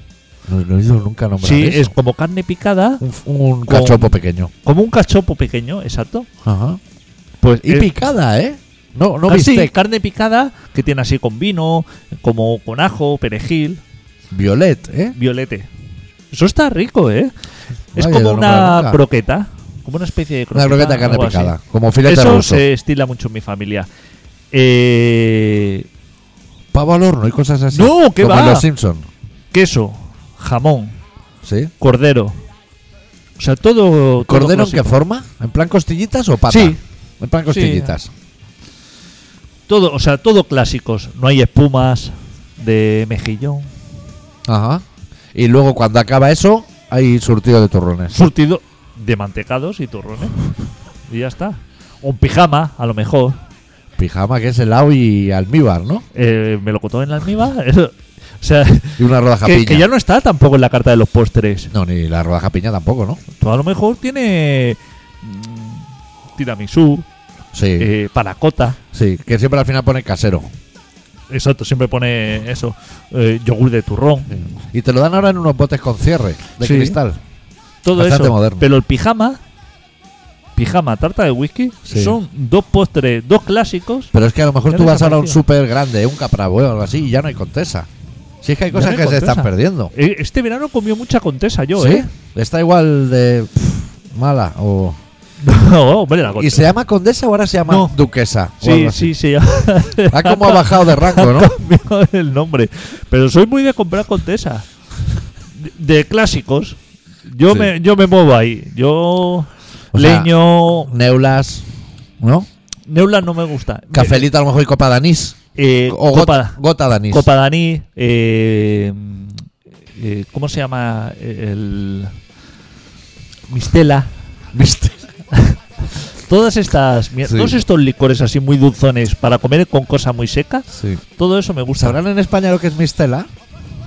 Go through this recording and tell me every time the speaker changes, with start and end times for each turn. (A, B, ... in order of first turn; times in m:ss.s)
0:00.5-0:01.9 A
0:01.4-0:03.0 B
0:03.0-0:04.5 A
0:03.7-0:06.3 B
0:06.4-0:06.8 A
0:07.4-0:07.9 B
0:07.6-0:09.7 A
0:09.3-0:13.8 B
0:14.3-0:15.2 A
0:15.2-0:15.7 B
0:16.3-0:17.3 B
0:18.0-0:19.0 A
0:18.0-0:23.9 B
0:20.5-0:22.6 A
0:24.5-0:25.9 B
0:26.7-0:29.1 A
0:27.7-0:28.7 B
0:29.5-0:31.0 B
0:31.4-0:31.7 A
0:31.8-0:32.4 B
0:33.4-0:35.0 B
0:34.3-0:38.1 A
0:36.5-0:36.8 B
0:37.5-0:38.0 B
0:39.7-0:43.7 B
0:44.5-0:44.8 A
0:45.4-0:48.2 A
0:48.1-0:50.4 B
0:51.1-0:53.4 B
0:54.0-0:56.0 A
0:56.1-1:01.7 B
0:59.0-0:59.9 A
1:01.7-1:03.2 A
1:03.4-1:05.8 B
1:06.4-1:07.1 B
1:07.5-1:07.9 A
1:07.8-1:08.8 B
1:08.9-1:10.5 A
1:11.3-1:14.4 B
1:14.3-1:17.2 A
1:16.6-1:17.0 B
1:17.8-1:19.4 B
1:17.9-1:18.7 A
1:20.6-1:24.1 B
1:21.9-1:22.2 A
1:24.1-1:27.9 A
1:24.7-1:25.4 B
1:28.4-1:29.9 A
1:28.7-1:32.1 B
1:31.8-1:35.0 A
1:35.4-1:36.7 B
1:36.4-1:39.1 A
1:37.7-1:38.0 B
1:38.6-1:44.7 B
1:40.1-1:41.6 A
1:45.6-1:50.9 B
1:49.9-1:51.7 A
1:52.2-1:52.5 A
1:52.9-1:54.3 B
1:53.9-1:57.3 A
1:55.6-1:59.4 B
2:00.0-2:02.2 B
2:03.5-2:04.1 B
2:04.5-2:05.0 A
2:05.3-2:12.0 B
2:07.2-2:07.6 A
2:10.7-2:11.0 A
2:11.8-2:13.3 A